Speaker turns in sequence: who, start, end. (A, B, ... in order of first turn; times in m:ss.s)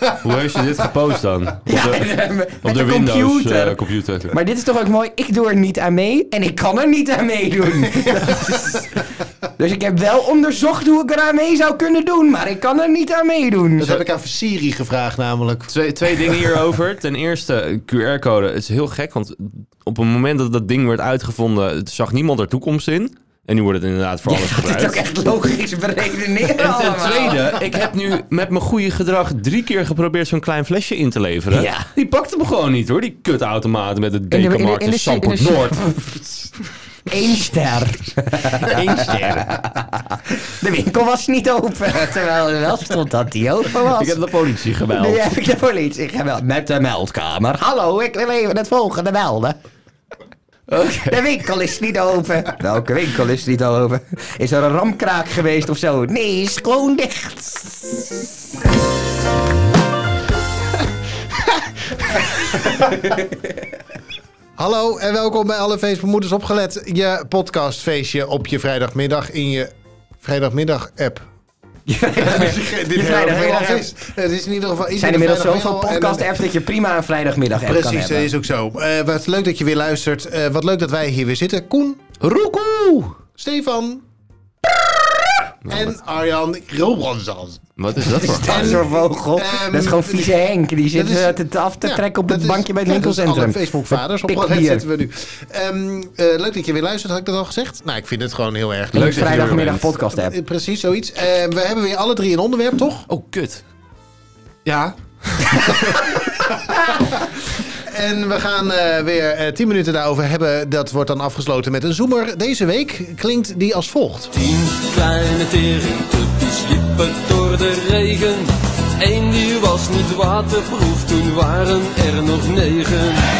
0:00.2-0:02.1 A
0:01.7-0:03.8 B
0:02.6-0:04.3 A
0:04.3-0:09.0 B
0:08.0-0:08.8 C
0:09.6-0:14.0 B
0:13.8-0:16.6 C
0:15.7-0:25.0 A
0:24.3-0:27.6 B
0:26.5-0:35.8 A
0:31.5-0:31.9 B
0:34.3-0:36.4 B
0:37.1-0:44.2 B
0:38.6-0:39.5 A
0:43.8-0:45.2 A
0:44.9-0:49.6 B
0:50.7-0:51.2 A
0:50.8-0:58.3 B
1:04.6-1:11.3 C
1:11.9-1:13.9 B
1:12.2-1:16.4 C
1:14.9-1:18.3 B
1:17.6-1:22.0 C
1:22.2-1:23.2 A
1:23.4-1:24.0 C
1:25.6-1:25.9 A
1:25.6-1:30.4 C
1:27.8-1:28.8 A
1:28.2-1:34.8 B
1:30.9-1:39.5 C
1:38.9-1:39.9 A
1:38.9-1:40.3 B
1:40.1-1:43.0 C
1:43.1-1:43.6 A
1:44.6-1:46.3 A
1:46.7-1:47.2 C
1:47.7-1:54.3 C
1:54.3-2:03.2 D